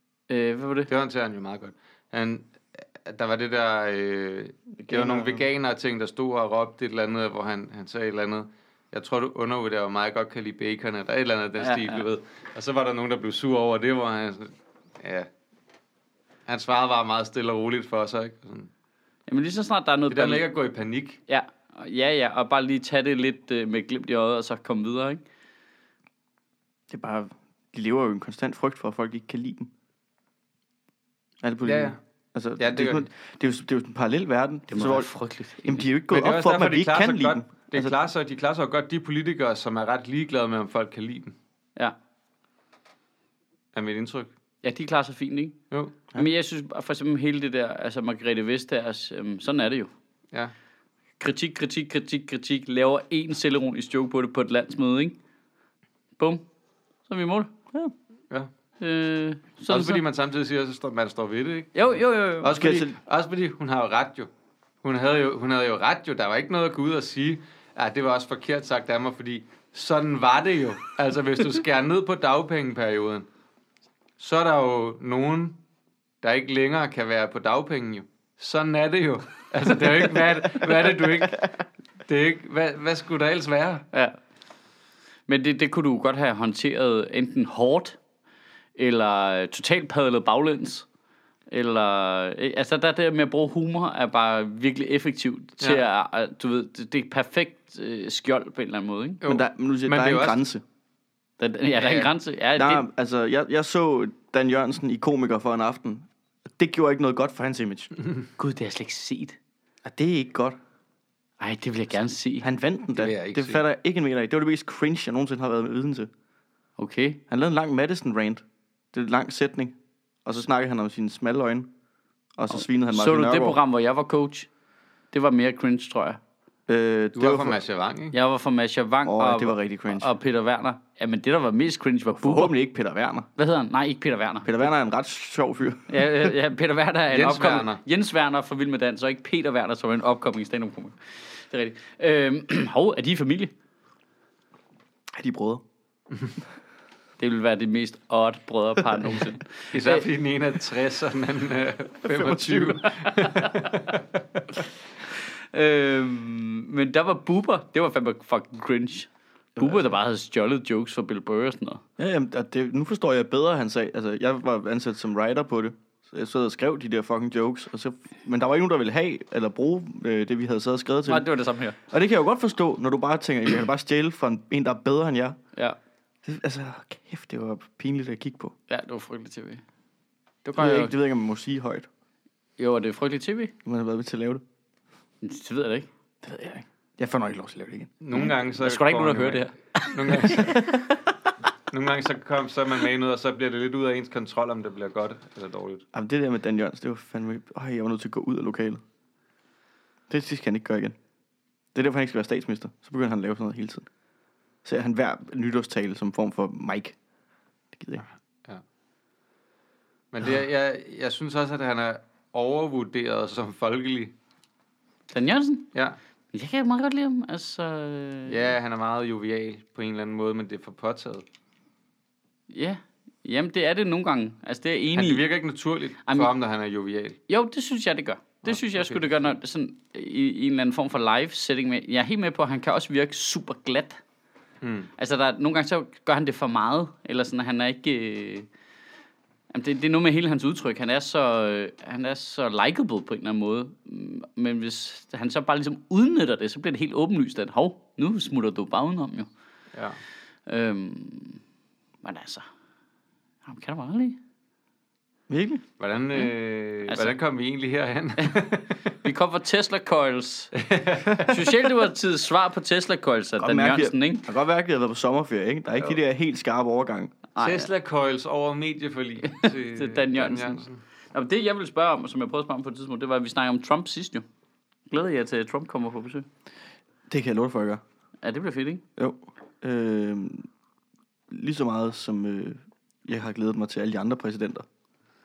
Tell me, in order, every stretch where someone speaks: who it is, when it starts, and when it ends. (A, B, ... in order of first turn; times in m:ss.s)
0:00.3-0:00.9 A
0:00.9-0:15.3 B
0:04.9-0:05.4 C
0:11.6-0:12.0 A
0:16.5-0:18.7 B
0:19.3-0:20.5 A
0:20.1-0:21.2 B
0:21.3-0:25.2 A
0:26.9-0:29.7 C
0:31.4-0:35.1 C
0:31.6-0:32.0 B
0:32.6-0:33.0 B
0:34.7-0:35.9 A
0:35.6-0:37.9 C
0:36.1-0:41.4 B
0:43.7-0:44.3 B
0:44.6-0:45.6 A
0:45.7-0:46.0 B
0:46.2-0:49.9 A
0:51.2-0:55.2 A
0:56.2-0:56.4 A
0:57.1-0:57.5 A
0:58.8-1:00.0 A
0:59.7-1:04.3 B
1:01.8-1:02.6 A
1:02.4-1:03.0 C
1:04.8-1:13.3 B
1:14.2-1:15.6 B
1:16.2-1:21.5 B
1:22.1-1:23.8 B
1:25.3-1:28.0 A
1:28.8-1:30.9 A
1:31.5-1:39.2 A
1:39.2-1:40.4 B
1:39.2-1:40.6 C
1:41.4-1:42.8 A
1:41.8-1:42.1 B
1:42.6-1:47.9 C
1:48.4-1:49.4 A
1:49.8-1:50.6 C
1:51.4-1:52.5 A
1:52.4-1:56.1 C
1:53.0-1:53.6 B
1:56.8-1:57.2 A
1:57.3-2:01.7 C
2:02.4-2:03.6 C
2:02.5-2:04.5 A
2:05.1-2:06.2 A
2:06.7-2:07.6 C
2:07.2-2:08.2 B
2:08.1-2:12.6 A
2:09.0-2:10.1 C
2:12.2-2:13.3 C
2:13.4-2:14.7 A
2:14.4-2:16.3 C
2:15.9-2:23.5 A
2:17.1-2:17.8 B
2:25.2-2:25.6 C
2:27.2-2:30.1 A
2:29.7-2:34.4 B
2:32.0-2:32.9 C
2:35.5-2:41.8 A
2:42.0-2:51.3 C
2:51.1-2:51.8 A
2:51.9-2:55.4 C
2:56.2-2:58.5 C
2:58.7-2:59.6 A
3:00.4-3:00.9 A
3:00.6-3:01.9 C
3:02.6-3:03.5 A
3:03.6-3:04.4 C
3:05.2-3:05.9 A
3:06.2-3:07.9 C
3:08.0-3:10.6 B
3:08.2-3:10.6 A
3:10.3-3:10.8 C
3:11.7-3:15.8 B
3:15.9-3:18.8 C
3:20.1-3:21.0 C
3:21.8-3:23.9 C
3:24.6-3:27.0 C
3:27.7-3:28.0 C
3:30.1-3:34.1 B
3:35.1-3:35.7 A
3:36.3-3:38.5 A
3:38.3-3:41.2 B
3:42.5-3:45.2 A
3:45.0-3:47.2 B
3:46.1-3:46.3 A
3:47.3-3:54.0 A
3:48.5-3:49.3 B
3:54.6-3:54.9 B
3:55.0-3:58.5 A
3:59.5-4:09.3 A
4:09.7-4:10.0 B
4:10.5-4:11.4 A
4:12.0-4:12.5 A
4:13.5-4:14.2 A
4:15.3-4:15.6 C
4:15.8-4:18.9 B
4:16.9-4:17.1 A
4:19.0-4:20.5 A
4:20.6-4:21.4 B
4:21.2-4:24.3 A
4:23.4-4:27.1 C
4:27.4-4:27.7 A
4:27.4-4:30.8 B
4:29.2-4:34.2 A
4:34.9-4:36.3 A
4:37.1-4:37.8 C
4:38.2-4:38.8 A
4:39.0-4:40.5 C
4:41.3-4:44.7 C